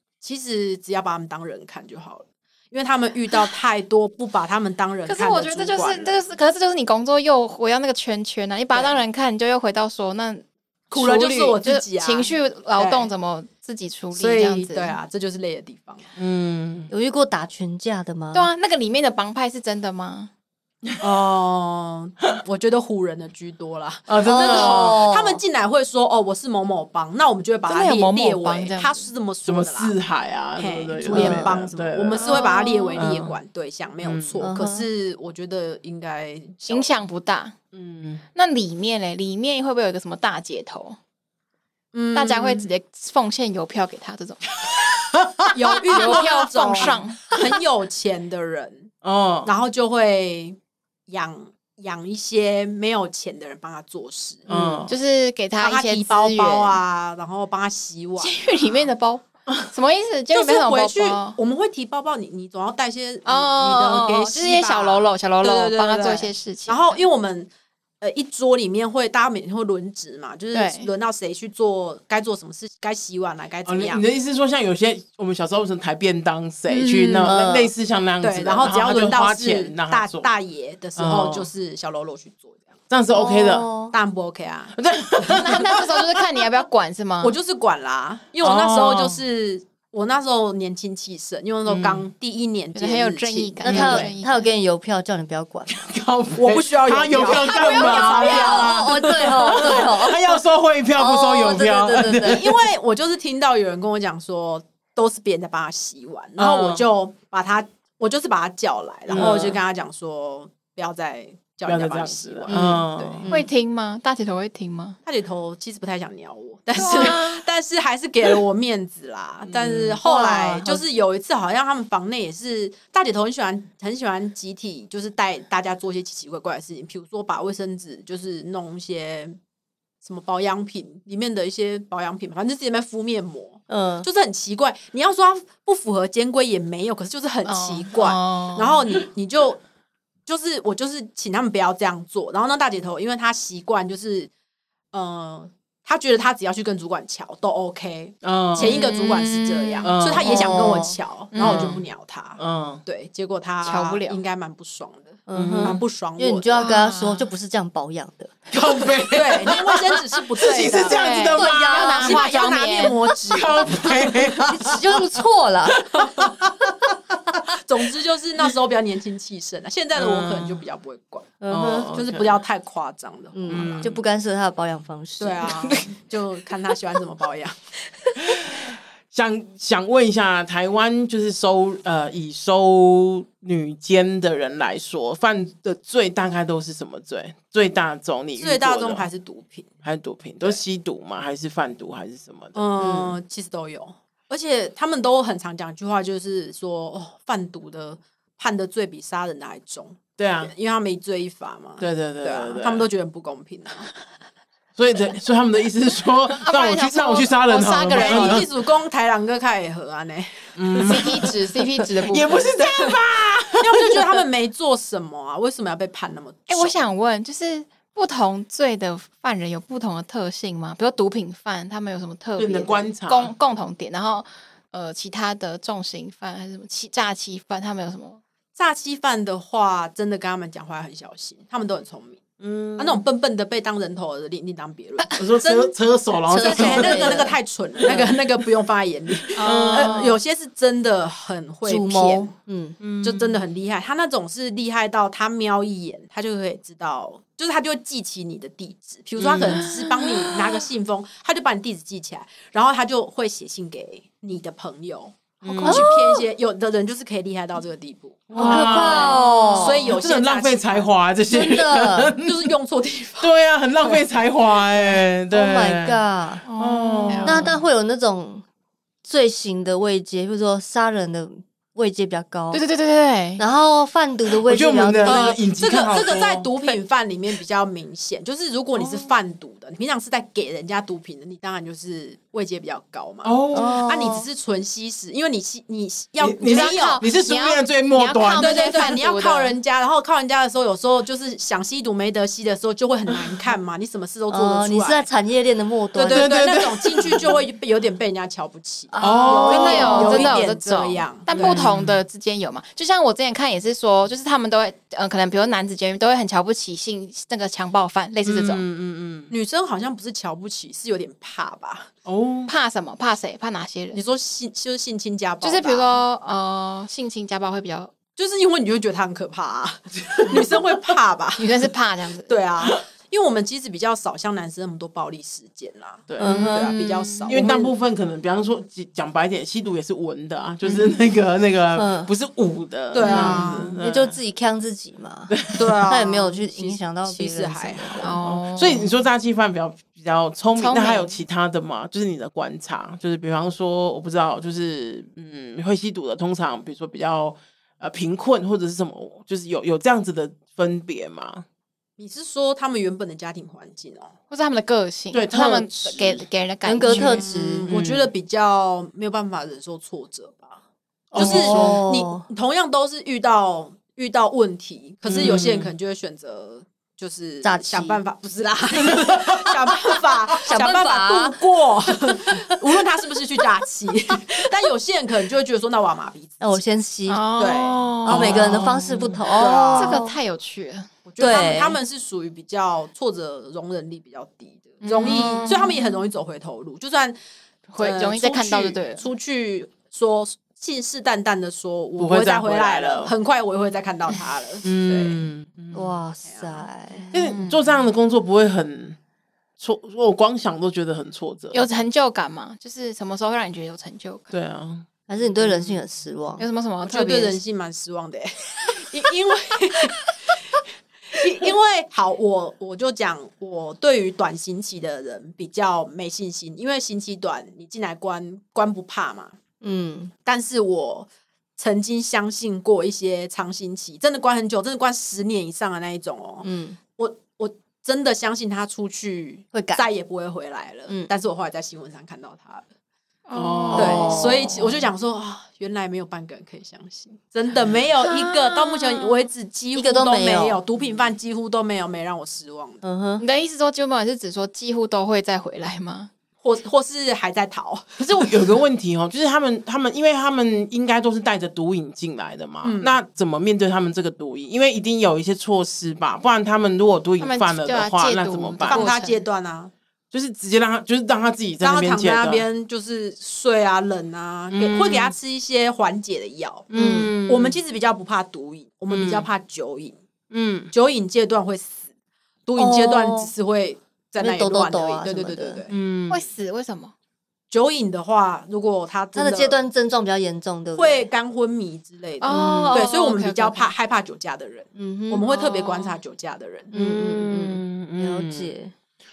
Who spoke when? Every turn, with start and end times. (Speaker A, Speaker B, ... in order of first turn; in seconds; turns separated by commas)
Speaker A: 0.2-6.2, Speaker B: 5.0-15.0, Speaker A: 8.7-9.0, Speaker A: 10.9-13.1, Speaker A: 14.1-16.1, Speaker C: 16.1-16.9, Speaker D: 16.9-18.5, Speaker B: 18.3-20.3, Speaker A: 21.0-29.9, Speaker C: 24.1-25.0, Speaker D: 24.2-25.4, Speaker B: 27.7-29.1, Speaker C: 29.4-33.3, Speaker A: 30.6-36.9, Speaker D: 31.1-31.4, Speaker B: 31.1-31.4, Speaker B: 32.1-33.0, Speaker C: 34.0-34.4, Speaker D: 34.4-34.9, Speaker B: 36.7-37.5, Speaker C: 37.7-38.2, Speaker B: 38.3-41.0, Speaker A: 41.9-42.7, Speaker B: 42.1-44.5, Speaker C: 44.7-45.5, Speaker A: 45.5-48.9, Speaker B: 45.9-47.3, Speaker C: 49.0-49.5, Speaker A: 49.4-54.8, Speaker C: 54.5-54.9, Speaker B: 54.9-56.8, Speaker A: 55.6-58.8, Speaker B: 58.2-61.4, Speaker A: 60.3-67.5, Speaker B: 63.2-67.0, Speaker A: 68.0-74.0, Speaker B: 70.5-70.9, Speaker C: 73.6-80.3, Speaker A: 76.7-77.3, Speaker D: 77.2-77.7, Speaker A: 78.2-82.6, Speaker C: 81.0-81.5, Speaker C: 82.9-83.7, Speaker D: 83.1-83.9, Speaker A: 83.9-84.7, Speaker C: 84.7-86.2, Speaker B: 85.2-87.4, Speaker A: 87.2-94.1, Speaker C: 88.4-89.2, Speaker C: 91.7-92.0, Speaker B: 92.7-94.5, Speaker D: 93.6-95.9, Speaker C: 95.7-102.6, Speaker A: 96.3-99.7, Speaker B: 97.5-98.5, Speaker D: 97.7-100.4, Speaker D: 101.0-102.4, Speaker A: 102.2-113.3, Speaker C: 106.4-106.8, Speaker C: 109.1-109.6, Speaker D: 109.1-109.5, Speaker C: 111.7-113.3, Speaker D: 112.5-113.4, Speaker B: 113.3-115.0, Speaker A: 115.0-129.4, Speaker B: 116.8-117.5, Speaker C: 119.4-120.0, Speaker D: 120.0-120.8, Speaker A: 130.0-139.6, Speaker D: 133.7-134.1, Speaker B: 137.4-138.8, Speaker A: 140.2-144.3, Speaker A: 144.9-156.6, Speaker C: 148.2-148.8, Speaker B: 148.6-150.7, Speaker C: 149.8-150.6, Speaker D: 150.2-151.0, Speaker B: 151.3-151.8, Speaker C: 151.4-151.8, Speaker C: 152.4-152.8, Speaker B: 153.6-154.2, Speaker D: 155.3-158.5, Speaker C: 155.3-155.8, Speaker B: 156.6-157.3, Speaker C: 158.5-162.2, Speaker A: 159.1-161.0, Speaker B: 160.9-163.0, Speaker D: 161.2-162.2, Speaker A: 162.0-164.3, Speaker C: 163.3-165.1, Speaker D: 164.4-165.9, Speaker C: 166.0-167.3, Speaker A: 167.6-173.9, Speaker C: 169.9-170.6, Speaker D: 171.4-171.9, Speaker C: 171.5-172.4, Speaker D: 173.3-175.8, Speaker C: 173.5-174.0, Speaker A: 175.2-177.6, Speaker C: 178.2-189.1, Speaker A: 188.3-189.7, Speaker C: 189.8-192.6, Speaker A: 192.5-203.9, Speaker D: 192.8-193.2, Speaker C: 200.2-200.5, Speaker C: 201.8-202.8, Speaker C: 204.8-208.5, Speaker B: 206.4-208.4, Speaker A: 207.9-211.3, Speaker C: 210.6-211.3, Speaker B: 210.8-212.4, Speaker C: 211.9-214.2, Speaker A: 212.6-212.9, Speaker A: 213.5-216.8, Speaker B: 216.5-228.2, Speaker C: 222.3-223.3, Speaker A: 228.5-232.2, Speaker C: 232.4-233.0, Speaker A: 232.8-235.7, Speaker C: 235.2-238.2, Speaker D: 236.3-237.3, Speaker A: 236.3-242.3, Speaker C: 239.3-240.1, Speaker B: 239.4-240.2, Speaker D: 241.6-242.8, Speaker C: 242.8-243.4, Speaker A: 243.0-260.9, Speaker C: 249.2-249.7, Speaker B: 249.5-250.1, Speaker C: 255.4-255.8, Speaker D: 255.7-255.9, Speaker C: 258.3-262.5, Speaker D: 258.4-259.9, Speaker D: 261.3-262.1, Speaker A: 262.2-263.3, Speaker C: 263.2-266.0, Speaker D: 265.3-266.4, Speaker B: 266.4-267.6, Speaker C: 266.6-267.6, Speaker D: 267.2-268.4, Speaker D: 269.0-272.6, Speaker B: 272.5-273.4, Speaker D: 273.4-275.3, Speaker C: 274.4-276.5, Speaker A: 275.0-287.0, Speaker C: 278.8-279.1, Speaker C: 283.2-283.9, Speaker D: 283.5-284.2, Speaker C: 286.2-289.0, Speaker B: 286.4-289.6, Speaker A: 288.4-295.1, Speaker D: 294.3-296.3, Speaker A: 295.9-301.6, Speaker C: 296.1-297.4, Speaker D: 298.9-300.4, Speaker C: 299.0-300.3, Speaker B: 299.0-308.6, Speaker C: 301.3-302.0, Speaker C: 308.2-309.3, Speaker A: 309.3-311.9, Speaker C: 312.0-312.5, Speaker B: 312.5-314.0, Speaker A: 313.9-316.0, Speaker B: 315.4-317.9, Speaker A: 318.1-321.6, Speaker B: 321.4-322.4, Speaker A: 322.2-327.7, Speaker C: 326.1-326.7, Speaker D: 326.2-326.8, Speaker B: 326.7-327.3, Speaker C: 327.3-334.2, Speaker D: 331.7-332.1, Speaker A: 332.9-333.8, Speaker B: 333.0-333.6, Speaker D: 333.1-338.2, Speaker C: 335.3-335.8, Speaker A: 335.5-338.1, Speaker B: 338.0-338.9, Speaker C: 338.2-351.4, Speaker B: 340.6-341.2, Speaker A: 352.0-354.1, Speaker B: 354.3-357.7, Speaker C: 355.1-356.2, Speaker D: 356.6-357.7, Speaker A: 356.9-360.6, Speaker C: 357.7-358.1, Speaker C: 361.1-361.8, Speaker D: 361.1-362.2, Speaker A: 361.1-376.7, Speaker C: 365.1-365.7, Speaker D: 367.4-368.0, Speaker C: 368.8-369.4, Speaker D: 370.4-371.4, Speaker D: 376.4-377.2, Speaker B: 377.1-378.7, Speaker A: 377.4-378.0, Speaker C: 378.0-379.2, Speaker D: 378.0-380.2, Speaker A: 379.3-380.0, Speaker B: 379.7-380.9, Speaker A: 381.1-387.2, Speaker D: 381.2-381.8, Speaker B: 384.8-386.0, Speaker B: 387.7-389.1, Speaker A: 387.8-395.3, Speaker C: 392.0-393.1, Speaker C: 394.6-395.9, Speaker D: 395.7-397.1, Speaker A: 396.3-396.7, Speaker C: 397.1-399.0, Speaker B: 397.1-397.6, Speaker C: 399.6-401.6, Speaker B: 401.5-404.3, Speaker C: 404.3-405.8, Speaker D: 405.1-406.4, Speaker B: 406.4-407.4, Speaker A: 406.8-419.4, Speaker D: 419.6-420.1, Speaker A: 420.2-432.7, Speaker D: 426.4-426.8, Speaker D: 429.5-429.8, Speaker B: 433.2-434.6, Speaker C: 433.3-434.5, Speaker A: 433.7-442.8, Speaker B: 438.0-439.2, Speaker D: 439.7-440.6, Speaker D: 442.8-443.2, Speaker B: 443.2-446.1, Speaker A: 446.4-448.4, Speaker C: 448.0-458.9, Speaker A: 452.6-452.9, Speaker B: 457.2-459.2, Speaker A: 458.7-459.7, Speaker C: 460.1-462.4, Speaker A: 461.6-466.7, Speaker C: 464.5-465.1, Speaker C: 466.7-467.6, Speaker D: 466.7-467.1, Speaker A: 467.2-469.9, Speaker C: 468.9-469.3, Speaker C: 470.3-470.7, Speaker A: 470.7-471.8, Speaker A: 472.4-475.7, Speaker D: 472.6-473.3, Speaker D: 474.2-475.6, Speaker C: 475.7-476.3, Speaker B: 476.1-476.9, Speaker A: 477.5-479.6, Speaker D: 479.1-481.1, Speaker A: 480.7-486.7, Speaker B: 482.2-483.7, Speaker D: 482.3-482.9, Speaker D: 484.8-485.2, Speaker B: 485.3-485.9, Speaker C: 486.7-488.5, Speaker D: 486.7-488.7